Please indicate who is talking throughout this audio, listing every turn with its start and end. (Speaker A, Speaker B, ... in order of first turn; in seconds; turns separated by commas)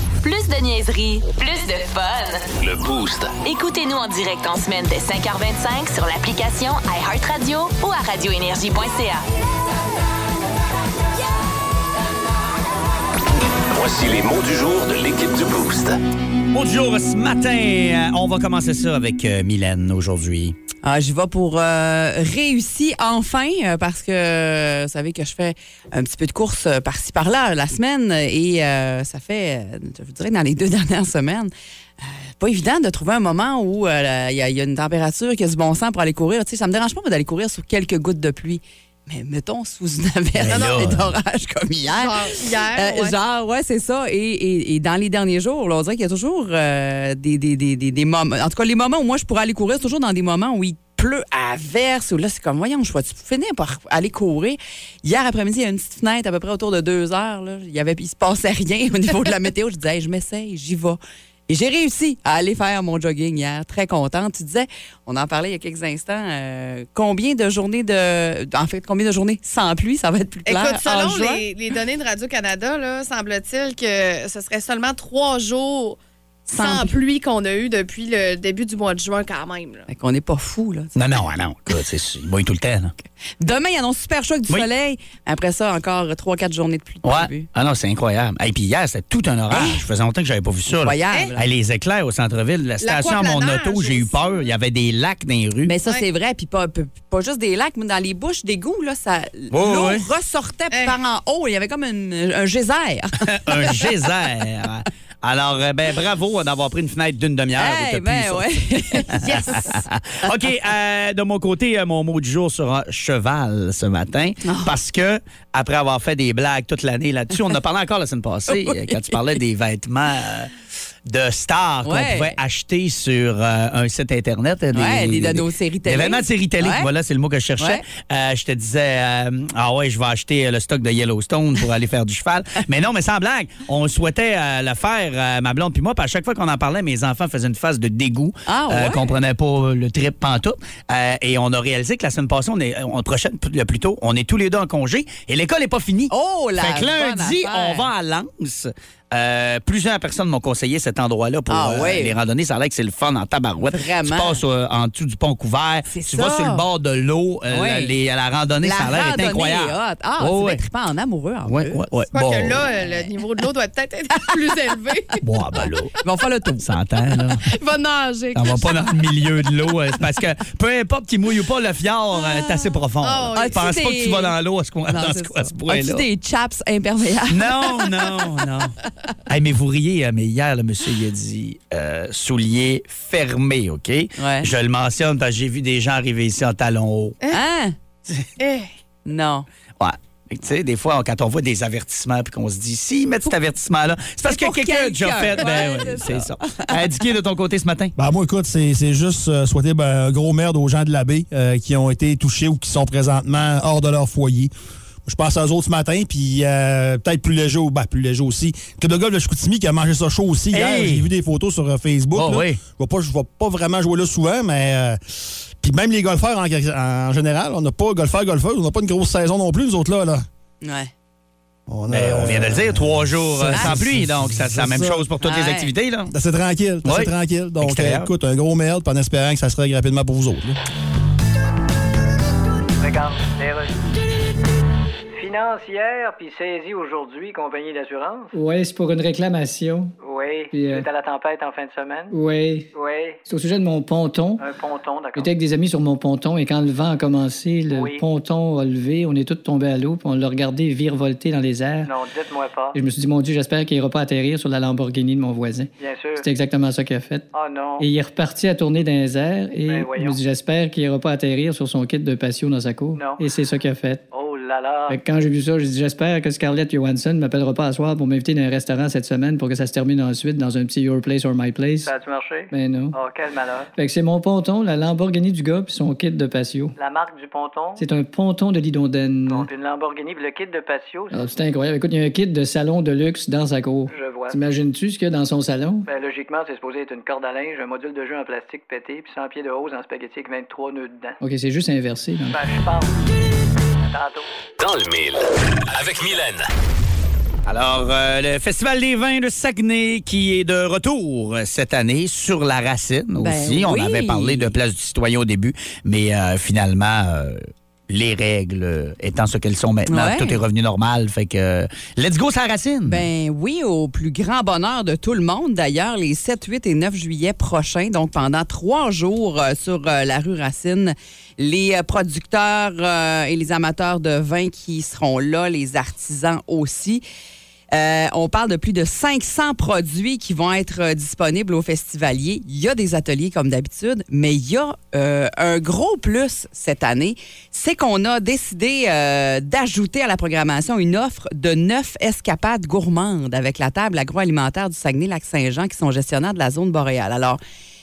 Speaker A: 0.2-2.5, Speaker B: 2.6-3.4, Speaker A: 3.4-9.2, Speaker B: 13.7-16.0, Speaker C: 16.5-20.6, Speaker D: 20.8-71.4, Speaker C: 40.4-41.0, Speaker E: 40.5-40.8, Speaker E: 41.9-43.1, Speaker E: 70.5-76.0, Speaker D: 76.5-77.0, Speaker E: 76.5-79.8, Speaker D: 79.9-81.0, Speaker C: 81.0-82.9, Speaker D: 83.4-87.5, Speaker C: 87.0-95.7, Speaker D: 89.5-89.8, Speaker D: 90.8-91.5, Speaker E: 92.8-94.5, Speaker D: 95.6-103.9, Speaker C: 99.5-100.0, Speaker E: 100.7-101.0, Speaker C: 103.3-120.5, Speaker D: 107.5-110.3, Speaker D: 114.4-114.7, Speaker D: 118.5-119.0, Speaker C: 121.0-160.6, Speaker D: 121.8-122.3, Speaker D: 124.7-126.9, Speaker D: 138.5-139.1, Speaker D: 146.1-147.9, Speaker D: 151.5-152.1, Speaker D: 153.7-154.4, Speaker D: 155.9-156.6, Speaker D: 157.5-157.9, Speaker D: 158.6-161.8, Speaker C: 161.5-162.6, Speaker E: 162.1-165.2, Speaker D: 162.7-163.1, Speaker C: 165.2-165.9, Speaker D: 166.0-166.7, Speaker C: 166.6-167.4, Speaker E: 167.5-168.9, Speaker C: 168.3-176.0, Speaker D: 172.2-172.6, Speaker E: 173.0-173.7, Speaker D: 173.3-174.3, Speaker D: 174.9-178.7, Speaker C: 177.3-178.7, Speaker C: 179.3-187.2, Speaker D: 184.2-184.5, Speaker D: 187.3-187.8, Speaker E: 188.4-188.7, Speaker D: 189.1-189.5, Speaker C: 189.8-197.9, Speaker D: 194.3-196.7, Speaker F: 198.0-204.5, Speaker F: 205.0-215.0, Speaker C: 210.5-211.1, Speaker C: 212.1-212.6, Speaker F: 215.6-220.2, Speaker D: 220.6-220.9, Speaker F: 221.7-225.0, Speaker C: 221.9-226.1, Speaker D: 225.2-225.7, Speaker F: 226.1-230.6, Speaker C: 226.8-228.1, Speaker G: 232.8-233.8, Speaker G: 235.1-238.3, Speaker H: 238.3-239.9, Speaker G: 240.0-242.1, Speaker H: 240.5-240.9, Speaker H: 242.1-242.7, Speaker G: 242.7-243.2, Speaker H: 243.2-244.4, Speaker G: 244.4-245.3, Speaker H: 245.2-251.9, Speaker G: 247.7-248.0, Speaker G: 251.8-252.8, Speaker H: 252.7-257.3, Speaker G: 255.8-256.2, Speaker G: 257.3-257.9, Speaker H: 257.8-264.0, Speaker G: 259.7-260.2, Speaker G: 262.9-263.2, Speaker G: 264.1-265.0, Speaker H: 264.9-271.9, Speaker G: 271.9-273.7, Speaker H: 272.5-272.9, Speaker H: 273.8-276.7, Speaker G: 276.8-277.8, Speaker H: 277.8-279.5, Speaker G: 279.3-281.2, Speaker H: 281.1-285.9, Speaker G: 283.9-284.4, Speaker G: 285.9-291.2, Speaker H: 291.2-292.4, Speaker G: 292.3-293.0, Speaker G: 293.9-294.3, Speaker B: 294.6-296.5, Speaker C: 297.4-313.1, Speaker D: 303.2-304.6, Speaker D: 309.9-310.4, Speaker D: 312.9-327.0, Speaker D: 327.7-347.4